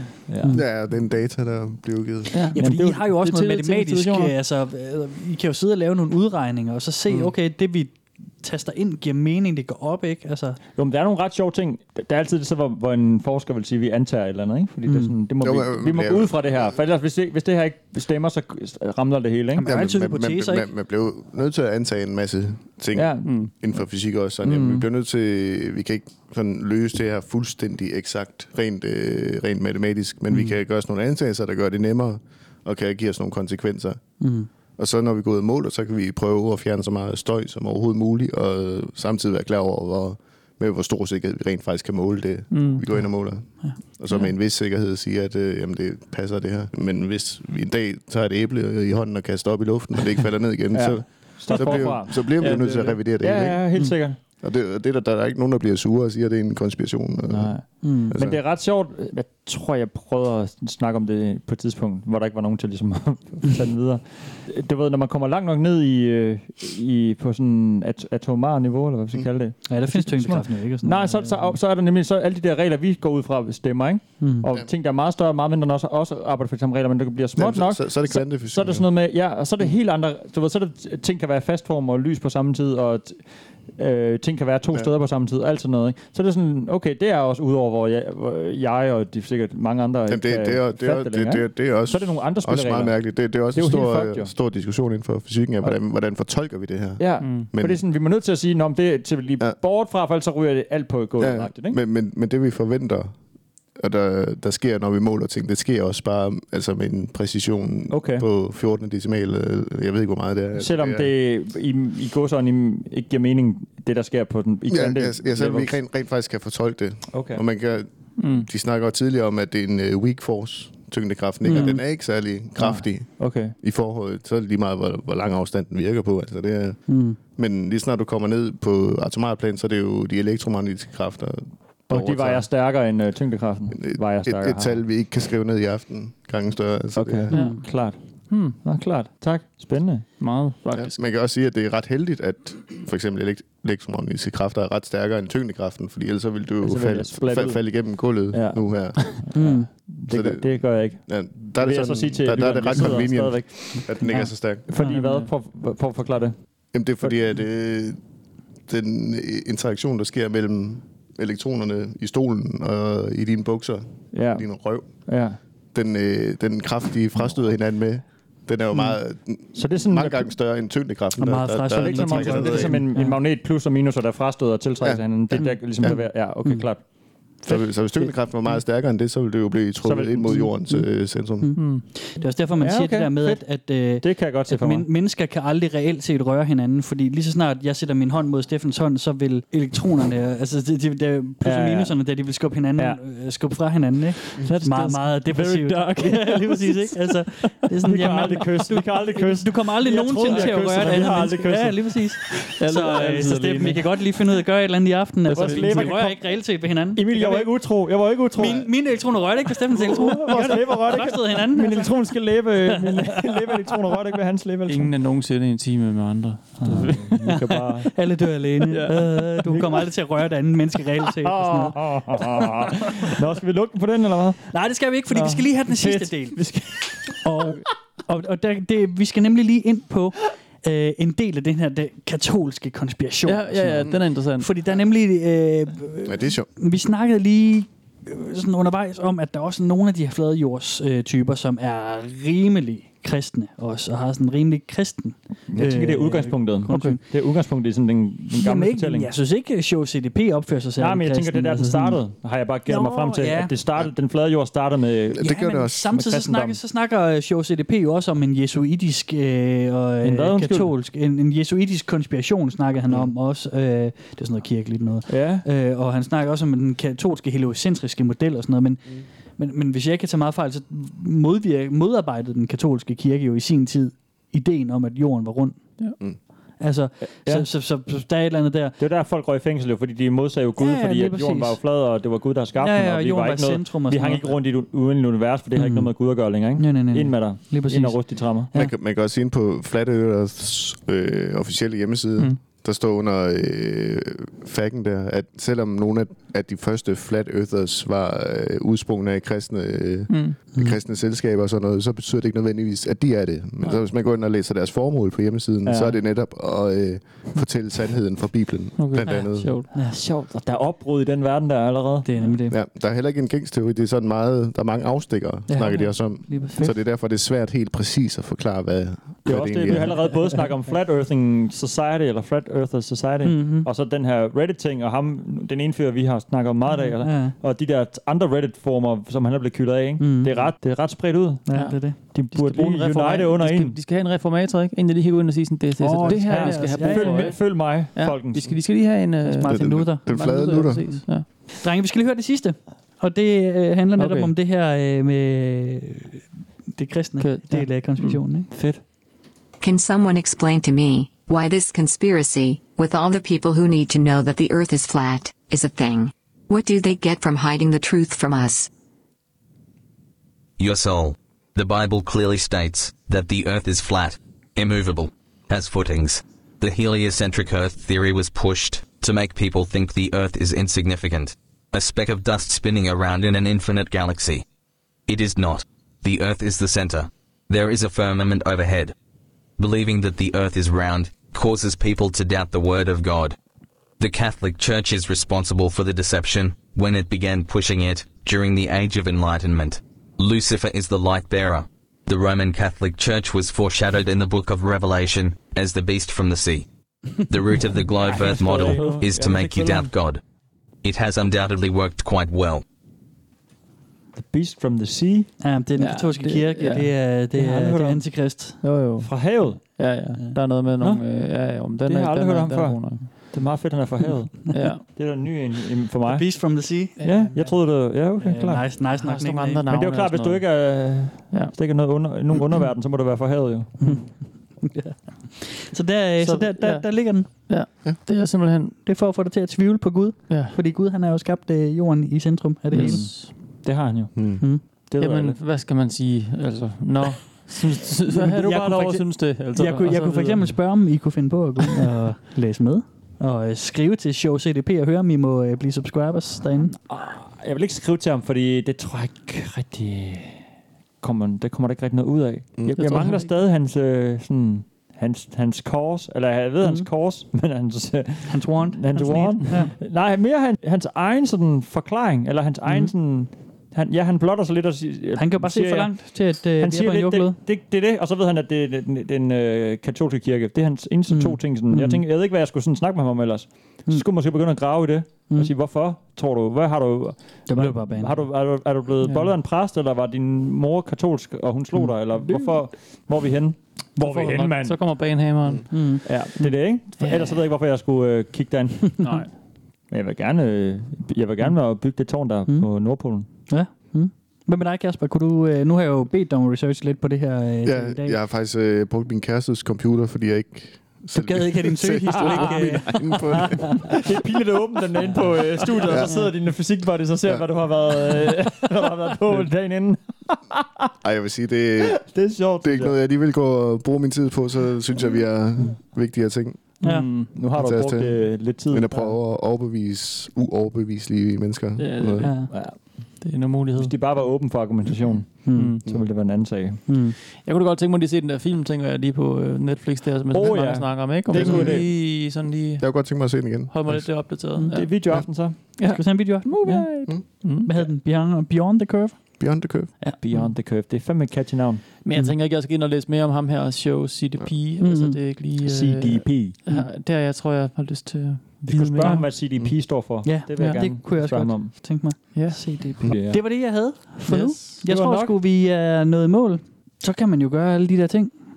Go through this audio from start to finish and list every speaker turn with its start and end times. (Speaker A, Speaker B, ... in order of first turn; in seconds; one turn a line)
Speaker A: 0.3-0.6
Speaker B: 0.5-2.4
Speaker C: 2.3-4.3
Speaker D: 2.5-10.6
Speaker A: 2.6-3.1
Speaker A: 10.8-19.7
Speaker D: 14.9-15.1
Speaker B: 15.4-16.8
Speaker D: 19.6-20.7
Speaker B: 19.6-34.1
Speaker A: 22.9-23.5
Speaker A: 24.4-24.9
Speaker D: 34.2-34.5
Speaker B: 34.8-53.9
Speaker C: 42.5-42.8
Speaker A: 50.7-54.2
Speaker C: 51.5-53.0
Speaker B: 54.4-58.4
Speaker A: 57.3-83.2
Speaker D: 57.8-58.1
Speaker D: 69.7-71.6
Speaker D: 74.2-74.5
Speaker B: 77.4-78.9
Speaker A: 83.7-94.3
Speaker B: 90.1-97.8
Speaker A: 97.0-101.8
Speaker C: 97.2-97.5
Speaker B: 101.2-103.2
Speaker B: 103.8-111.1
Speaker A: 107.9-108.3
Speaker A: 110.5-115.8
Speaker B: 114.7-132.5
Speaker A: 117.1-117.4
Speaker C: 118.2-118.5
Speaker D: 121.5-121.8
Speaker A: 123.2-123.5
Speaker D: 126.9-127.2
Speaker A: 131.9-134.8
Speaker B: 133.7-137.3
Speaker A: 136.9-140.2
Speaker D: 137.3-137.6
Speaker C: 137.3-137.6
Speaker C: 138.3-138.6
Speaker C: 140.2-141.0
Speaker B: 140.7-149.6
Speaker A: 146.6-147.8
Speaker A: 148.3-154.0
Speaker D: 149.3-149.7
Speaker B: 150.1-154.7
Speaker D: 154.0-155.2
Speaker A: 154.7-156.3
Speaker B: 156.7-158.0
Speaker B: 158.7-164.9
Speaker A: 164.1-165.4
Speaker B: 165.7-172.9
Speaker A: 169.5-170.3
Speaker D: 171.2-173.2
Speaker A: 171.7-176.8
Speaker B: 174.8-176.0
Speaker D: 175.7-176.7
Speaker B: 177.4-181.5
Speaker A: 177.5-178.6
Speaker A: 179.8-180.5
Speaker D: 180.4-207.8
Speaker C: 181.6-181.8
Speaker A: 182.6-184.9
Speaker A: 191.4-192.0
Speaker C: 194.4-197.1
Speaker A: 197.7-202.1
Speaker C: 200.3-200.6
Speaker C: 202.5-204.2
Speaker A: 205.3-206.2
Speaker C: 205.3-206.2
Speaker A: 206.9-208.7
Speaker D: 208.3-212.1
Speaker A: 209.7-214.9
Speaker C: 214.7-217.3
Speaker A: 216.6-217.9
Speaker D: 216.7-217.4
Speaker D: 217.9-222.4
Speaker C: 218.7-219.2
Speaker A: 219.4-219.9
Speaker A: 221.2-224.5
Speaker D: 224.5-226.4
Speaker A: 225.1-227.5
Speaker D: 227.2-247.0
Speaker C: 233.2-234.5
Speaker B: 236.1-236.5
Speaker A: 245.5-249.1
Speaker D: 248.3-252.0
Speaker A: 250.8-255.4
Speaker D: 252.7-253.5
Speaker B: 255.2-256.0
Speaker D: 255.2-275.7
Speaker A: 255.9-256.6
Speaker A: 260.0-260.7
Speaker A: 265.1-265.5
Speaker D: 276.6-278.8
Speaker A: 277.0-277.5
Speaker A: 278.8-288.5
Speaker D: 280.6-281.6
Speaker D: 282.6-284.4
Speaker D: 285.6-288.7
Speaker B: 288.5-309.6
Speaker C: 300.1-300.4
Speaker D: 300.5-300.8
Speaker A: 305.6-306.0
Speaker C: 308.8-309.7
Speaker D: 309.7-310.0
Speaker A: 309.7-312.1
Speaker D: 312.0-312.6
Speaker B: 312.5-320.1
Speaker D: 315.5-316.7
Speaker A: 319.2-333.8
Speaker D: 323.2-323.7
Speaker D: 326.7-327.4
Speaker D: 330.0-330.8
Speaker D: 331.5-332.0
Speaker C: 331.5-341.3
Speaker D: 335.8-337.3
Speaker A: 336.2-338.6
Speaker D: 339.2-340.1
Speaker B: 339.4-340.9
Speaker D: 340.9-348.5
Speaker C: 344.0-344.3
Speaker C: 347.2-348.2
Speaker A: 348.5-348.8
Speaker E: 349.6-358.7
Speaker F: 360.6-374.4
Speaker F: 375.1-378.9
Speaker F: 379.6-383.4
Speaker F: 384.0-396.7
Speaker F: 397.2-400.2
Speaker A: 398.0-399.9
Speaker C: 398.3-399.0
Speaker F: 400.8-402.6
Speaker A: 404.1-405.3
Speaker D: 405.4-408.6
Speaker C: 405.8-406.9
Speaker A: 407.4-408.0
Speaker C: 408.6-413.2
Speaker A: 409.0-409.6
Speaker A: 410.8-411.1
Speaker A: 411.8-418.7
Speaker C: 414.5-414.8
Speaker D: 416.1-417.6
Speaker C: 417.0-417.4
Speaker D: 418.2-419.6
Speaker C: 418.8-421.5
Speaker A: 419.7-423.8
Speaker D: 423.8-427.9
Speaker C: 426.2-428.8
Speaker D: 428.8-433.2
Speaker C: 430.3-430.6
Speaker C: 432.7-433.3
Speaker A: 432.7-435.4
Speaker B: 434.2-434.4
Speaker C: 435.0-440.0
Speaker A: 437.5-440.5
Speaker D: 439.9-446.8
Speaker A: 446.8-450.5
Speaker A: 451.0-484.8
Speaker B: 452.6-452.9
Speaker C: 452.8-453.4
Speaker D: 456.6-456.9
Speaker D: 458.3-459.7
Speaker D: 465.2-467.4
Speaker D: 471.1-472.0
Speaker D: 475.3-475.5
Speaker D: 477.5-478.3
Speaker C: 479.0-479.4
Speaker C: 484.0-486.2
Speaker D: 485.7-486.4
Speaker A: 486.0-489.3
Speaker C: 487.0-487.4
Speaker C: 489.0-489.3
Speaker A: 489.9-493.3
Speaker D: 492.5-498.2
Speaker B: 497.6-504.0
Speaker D: 501.1-503.6
Speaker A: 502.1-510.9
Speaker D: 505.6-506.3
Speaker B: 505.9-506.2
Speaker B: 511.0-516.7
Speaker A: 511.8-513.0
Speaker D: 516.8-517.1
Speaker C: 516.8-517.3
Speaker A: 516.9-519.2
Speaker B: 517.5-522.3
Speaker C: 521.8-523.9
Speaker D: 522.2-522.5
Speaker A: 522.5-523.2
Speaker A: 523.8-526.9
Speaker D: 525.5-525.8
Speaker C: 525.5-525.8
Speaker D: 526.9-527.2
Speaker C: 527.4-532.9
Speaker A: 530.3-531.9
Speaker B: 531.3-532.0
Speaker B: 532.8-534.4
Speaker C: 533.7-535.1
Speaker D: 534.6-535.0
Speaker A: 534.7-535.8
Speaker D: 535.6-540.4
Speaker C: 535.8-537.7
Speaker A: 536.5-537.4
Speaker B: 539.4-539.9
Speaker A: 540.2-541.8
Speaker C: 542.0-549.3
Speaker D: 544.8-545.2
Speaker A: 545.6-546.6
Speaker A: 548.6-551.7
Speaker D: 548.9-549.5
Speaker D: 550.2-558.4
Speaker C: 552.3-552.9
Speaker A: 553.0-553.5
Speaker C: 554.3-554.8
Speaker A: 554.8-555.4